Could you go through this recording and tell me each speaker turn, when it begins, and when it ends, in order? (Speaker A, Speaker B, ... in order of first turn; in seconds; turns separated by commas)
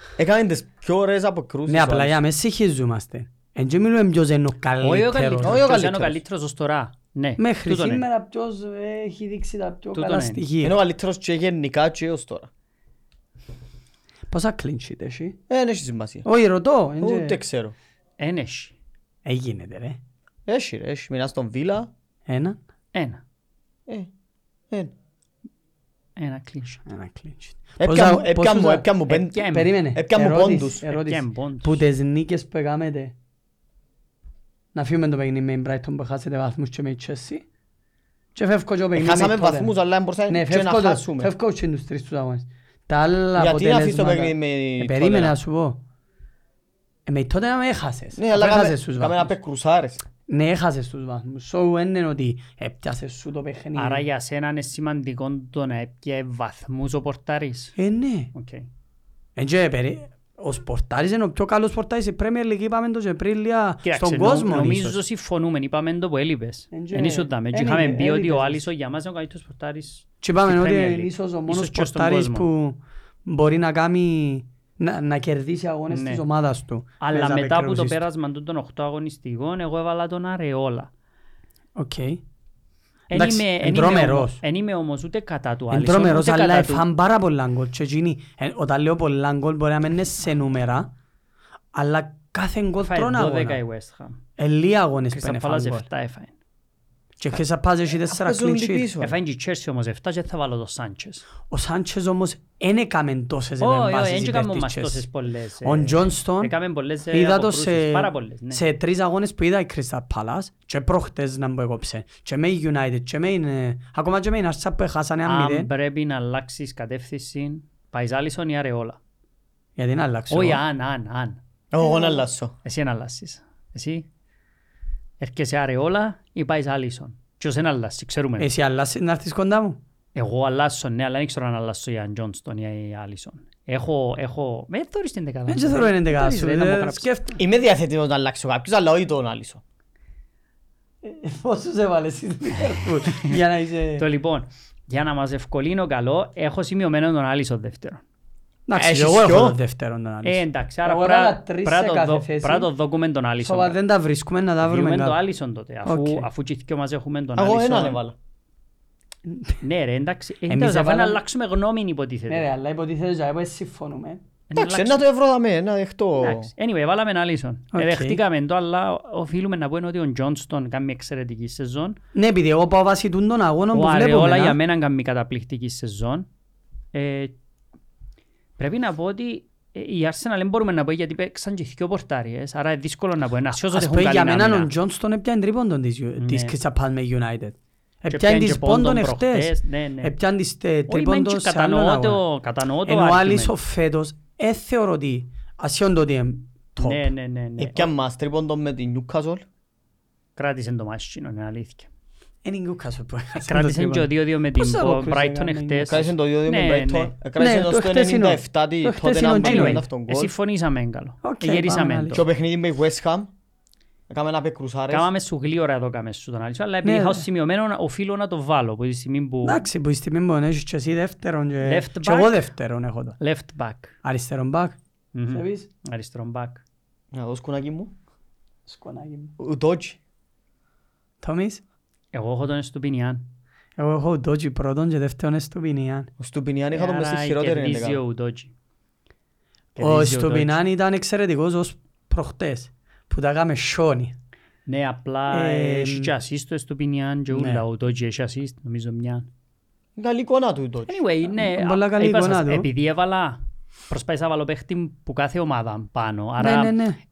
Speaker A: 0.2-2.2, Speaker B: 1.7-5.6, Speaker C: 4.8-8.1, Speaker A: 5.4-6.2, Speaker B: 7.4-10.8, Speaker C: 9.9-10.4, Speaker A: 10.6-12.5, Speaker B: 14.3-15.4, Speaker A: 15.5-16.3, Speaker B: 16.2-17.4, Speaker A: 17.0-17.7, Speaker C: 18.2-18.8, Speaker B: 19.2-20.0, Speaker A: 20.5-21.9, Speaker B: 22.3-22.6, Speaker C: 22.9-23.2, Speaker C: 26.1-26.8, Speaker B: 26.9-28.9, Speaker A: 27.8-30.8, Speaker C: 29.1-29.7, Speaker B: 29.5-33.1, Speaker C: 30.8-31.8, Speaker B: 34.7-37.4, Speaker B: 38.3-39.7, Speaker A: 39.0-41.3, Speaker B: 40.3-45.8, Speaker A: 43.4-45.3, Speaker B: 47.0-49.3, Speaker A: 48.1-50.0, Speaker B: 50.3-54.0, Speaker C: 53.7-57.8, Speaker B: 57.8-58.3, Speaker C: 58.3-58.7, Speaker B: 59.4-65.0, Speaker C: 63.8-72.5, Speaker B: 66.7-68.7, Speaker B: 70.2-78.0, Speaker C: 75.9-76.2, Speaker C: 77.0-80.9, Speaker B: 81.8-82.2, Speaker C: 83.1-86.8, Speaker B: 83.1-84.4, Speaker B: 85.7-90.9, Speaker B: 91.7-93.6, Speaker C: 92.8-94.2, Speaker B: 94.4-95.9, Speaker C: 95.1-96.3, Speaker B: 97.2-98.9, Speaker A: 98.1-99.2, Speaker C: 99.0-101.3, Speaker B: 101.5-105.0, Speaker C: 103.6-108.6, Speaker B: 105.6-106.5, Speaker B: 107.1-115.7, Speaker C: 115.2-119.0, Speaker B: 119.8-120.6, Speaker C: 120.3-124.1, Speaker A: 121.7-122.5, Speaker C: 125.2-128.5, Speaker B: 128.4-129.8, Speaker C: 130.1-137.1, Speaker B: 135.5-137.4, Speaker A: 137.4-139.6, Speaker B: 141.0-144.0, Speaker C: 143.0-143.4, Speaker C: 144.0-148.0, Speaker B: 148.7-152.7, Speaker A: 148.8-149.6, Speaker C: 150.2-153.8, Speaker B: 153.4-155.2, Speaker C: 154.6-158.0, Speaker B: 155.8-156.3, Speaker A: 157.3-158.1, Speaker B: 159.2-159.6, Speaker C: 159.6-162.5, Speaker B: 160.5-161.2, Speaker B: 162.3-164.2, Speaker C: 164.5-165.0, Speaker A: 164.5-166.5, Speaker C: 166.2-172.0, Speaker B: 167.7-168.2, Speaker B: 172.1-174.6, Speaker C: 173.7-176.3, Speaker C: 176.9-177.3, Speaker C: 178.6-184.7, Speaker B: 183.7-192.2, Speaker C: 186.2-186.6, Speaker C: 188.1-190.1, Speaker C: 190.9-193.6, Speaker B: 192.8-197.1, Speaker C: 196.8-197.9, Speaker A: 197.6-199.4, Speaker C: 200.4-201.9, Speaker B: 202.4-206.1, Speaker C: 203.4-207.1, Speaker A: 205.9-210.3, Speaker B: 207.4-209.8, Speaker C: 209.4-212.2, Speaker B: 211.2-212.2, Speaker A: 212.1-213.3, Speaker A: 214.1-215.1, Speaker C: 214.9-219.7, Speaker B: 216.8-217.2, Speaker B: 219.4-223.2, Speaker C: 221.6-222.5, Speaker C: 223.2-223.9, Speaker B: 224.0-224.8, Speaker C: 225.1-226.6, Speaker B: 225.3-225.7, Speaker A: 227.1-227.9, Speaker B: 228.7-229.3, Speaker A: 229.4-230.0, Speaker B: 231.2-231.6, Speaker C: 232.1-233.2, Speaker B: 233.8-236.1, Speaker A: 236.2-238.0, Speaker C: 236.7-238.5, Speaker C: 239.8-240.6, Speaker B: 239.8-244.2, Speaker C: 244.7-249.3, Speaker B: 245.3-246.1, Speaker B: 247.3-247.6, Speaker A: 250.0-251.0, Speaker C: 250.9-256.8, Speaker B: 251.3-252.7, Speaker B: 256.4-257.0